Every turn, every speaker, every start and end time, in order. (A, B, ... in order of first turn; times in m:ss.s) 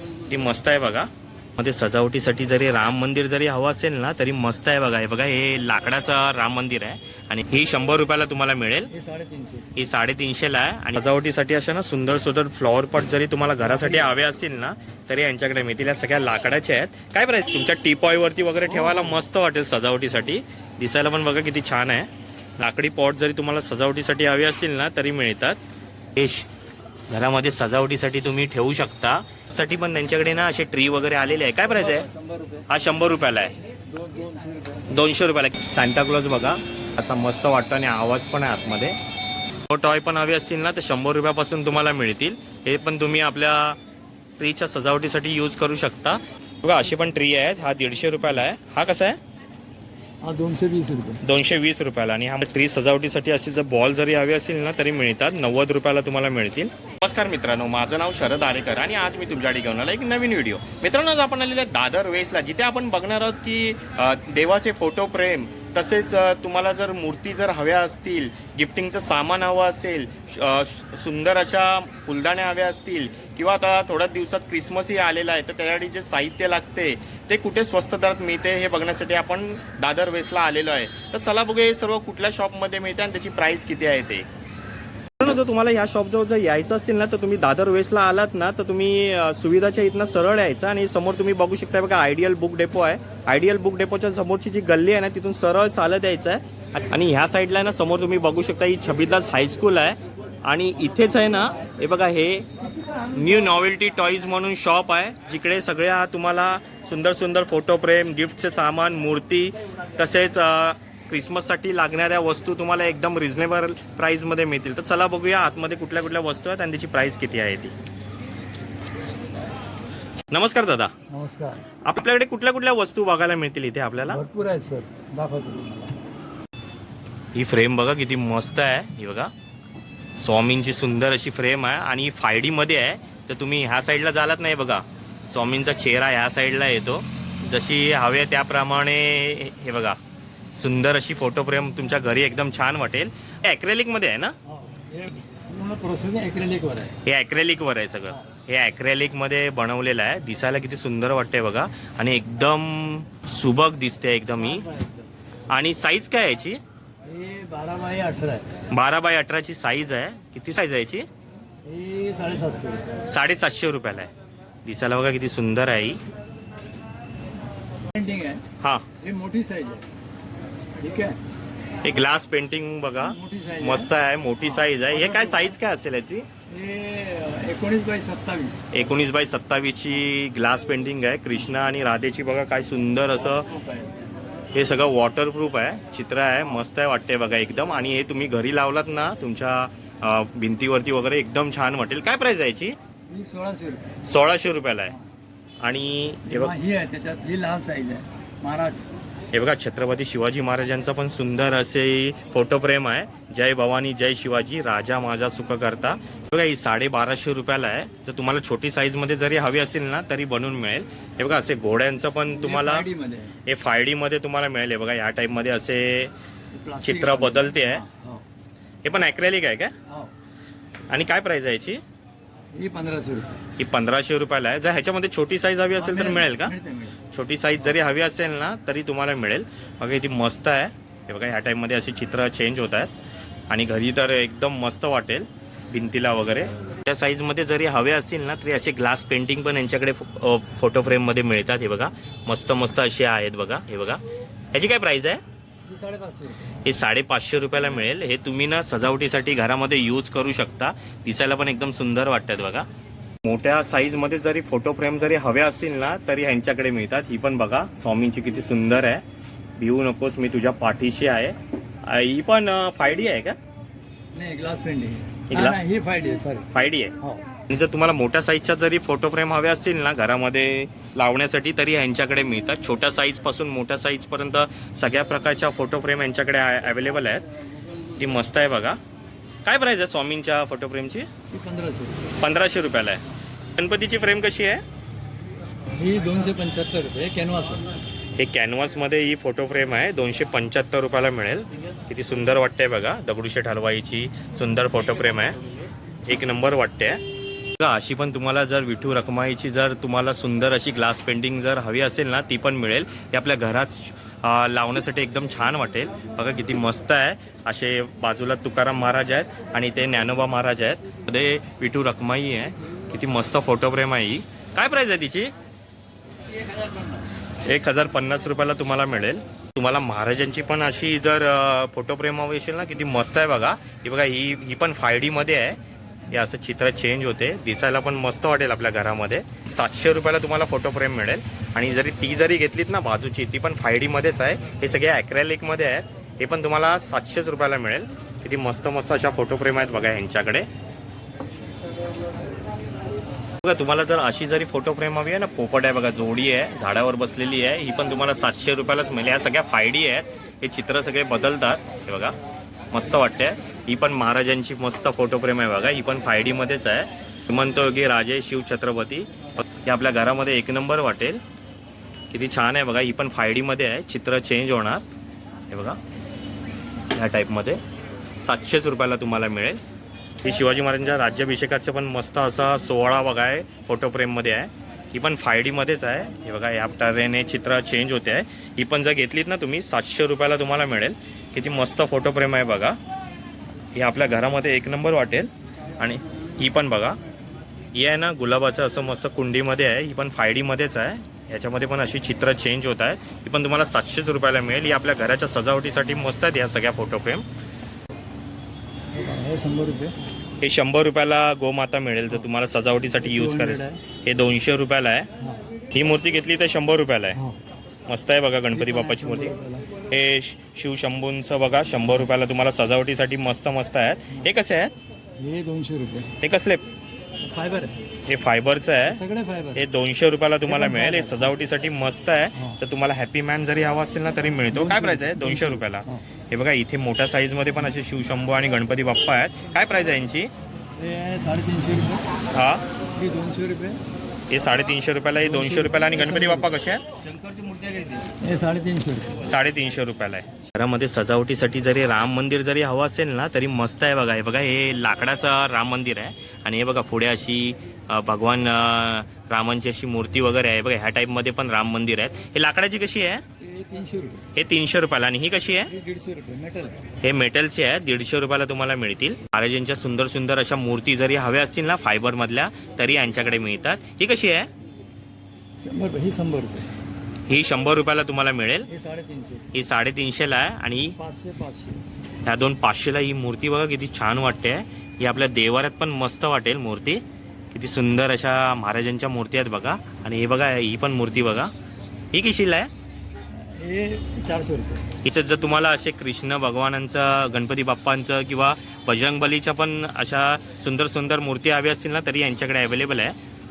0:00.3-0:08.9 A
0:08.9-0:09.7 B
0:09.8-0:25.6 A
0:13.6-0:14.1 B
0:18.7-0:19.2 B
0:26.2-0:26.5 A
0:27.1-0:32.1 A
0:31.6-0:32.7 B
0:32.7-0:33.6 A
0:33.9-0:34.9 B
0:34.9-0:39.0 A
0:39.7-0:43.8 A
0:44.4-0:49.2 A
0:50.2-0:51.2 B
0:51.2-1:24.3 A
1:25.2-1:42.5 A
1:43.1-1:57.7 A
2:00.3-2:00.9 A
2:01.1-2:01.6 B
2:01.8-2:04.2 A
2:04.0-2:06.0 B
2:07.4-2:09.3 A
2:10.2-2:20.0 A
2:20.6-2:24.4 A
2:24.5-2:27.0 B
2:27.0-2:34.7 A
2:34.3-2:35.1 B
2:35.5-2:36.6 A
2:37.0-2:38.5 B
2:38.7-2:41.1 A
2:41.6-2:42.9 B
2:43.0-2:44.1 A
2:44.6-2:46.0 A
2:47.9-2:48.4 B
2:48.6-2:48.9 A
2:49.0-2:49.9 B
2:50.8-2:51.2 B
2:51.8-2:56.3 A
2:53.0-2:53.9 B
2:54.4-2:55.5 B
2:56.5-2:58.7 B
2:58.7-3:03.5 A
3:03.2-3:04.0 B
3:04.5-3:12.8 A
3:13.1-3:14.0 B
3:14.0-3:15.0 A
3:15.6-3:16.6 A
3:16.2-3:18.9 B
3:19.3-3:32.9 A
3:32.3-3:33.3 B
3:33.5-3:36.1 A
3:36.5-3:38.3 B
3:36.8-3:37.8 A
3:38.8-3:39.7 A
3:39.9-3:40.1 B
3:40.9-3:41.8 A
3:42.5-3:43.3 B
3:43.6-3:46.5 A
3:45.8-3:47.0 B
3:47.1-3:52.9 A
3:53.5-4:04.0 A
4:04.5-4:05.2 A
4:05.7-4:06.6 B
4:06.6-4:12.7 A
4:13.2-4:19.0 A
4:19.6-4:23.4 A
4:24.1-4:27.2 B
4:25.3-4:25.6 A
4:26.5-4:27.0 A
4:27.5-4:37.3 A
4:38.0-4:38.8 A
4:39.4-4:41.1 A
4:41.3-4:42.2 B
4:42.2-4:43.0 A
4:43.6-4:44.6 A
4:45.8-4:47.7 B
4:48.2-4:55.5 A
4:56.1-4:57.0 A
4:57.6-5:15.3 A
5:17.5-5:40.5 A
5:43.4-5:52.2 A
5:52.7-6:01.2 A
6:02.1-6:04.8 A
6:05.5-6:05.8 A
6:07.0-6:07.6 A
6:08.2-6:09.6 A
6:10.2-6:22.8 A
6:23.8-6:27.0 A
6:27.7-6:37.2 A
6:38.9-6:40.0 B
6:40.4-6:45.1 A
6:43.0-6:43.8 B
6:45.2-6:45.5 B
6:45.7-6:47.2 A
6:47.1-6:47.4 B
6:47.9-6:49.4 A
6:48.5-6:49.7 B
6:49.9-6:54.7 A
6:55.2-6:56.2 B
6:56.2-6:56.6 A
6:57.2-6:57.8 B
6:58.1-6:59.0 A
6:58.8-6:59.6 B
6:59.6-7:10.3 A
7:00.4-7:01.4 B
7:02.4-7:02.6 B
7:04.5-7:06.0 B
7:10.8-7:12.1 B
7:12.3-7:12.6 A
7:13.0-7:13.8 B
7:14.3-7:16.9 A
7:15.2-7:19.3 B
7:19.2-7:33.2 A
7:33.4-7:34.3 B
7:34.4-7:35.7 A
7:35.6-7:36.8 B
7:37.0-7:44.5 A
7:45.6-7:46.7 B
7:47.3-7:48.7 A
7:48.7-7:49.5 B
7:49.5-7:51.0 A
7:51.0-7:51.8 B
7:52.3-7:57.0 A
7:57.5-8:01.5 A
8:02.1-8:02.7 A
8:03.3-8:04.9 B
8:05.0-8:13.2 A